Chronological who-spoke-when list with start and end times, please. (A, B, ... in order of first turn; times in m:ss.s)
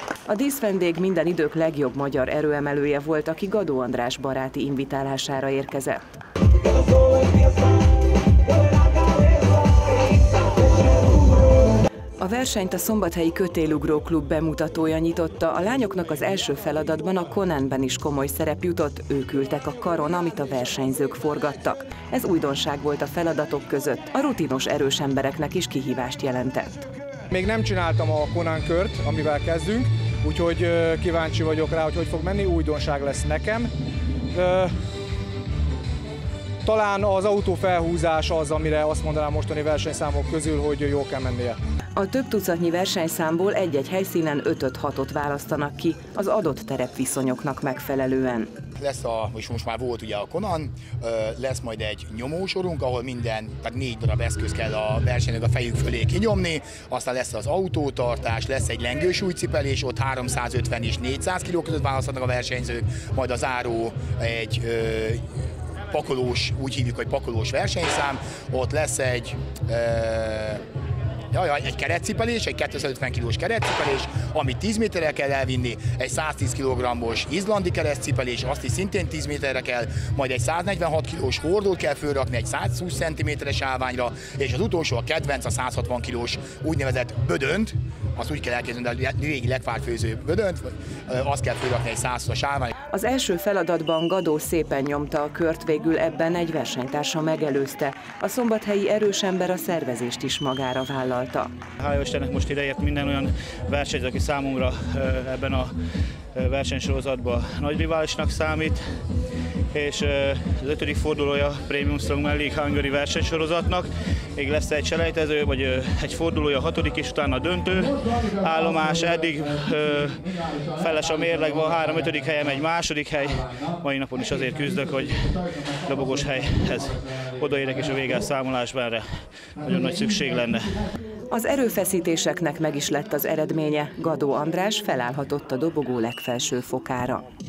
0:00.3-0:06.0 A
0:12.2-0:26.8 A
0:27.3-0:33.7 B
0:34.3-0:34.7 B
0:36.6-0:41.6 B
0:42.0-0:48.5 A
0:48.8-1:05.2 C
1:05.9-1:10.6 C
1:11.3-1:32.7 C
1:32.9-1:41.5 A
1:41.8-1:45.7 D
1:46.3-1:48.8 D
1:49.7-2:10.8 D
2:11.3-2:17.2 A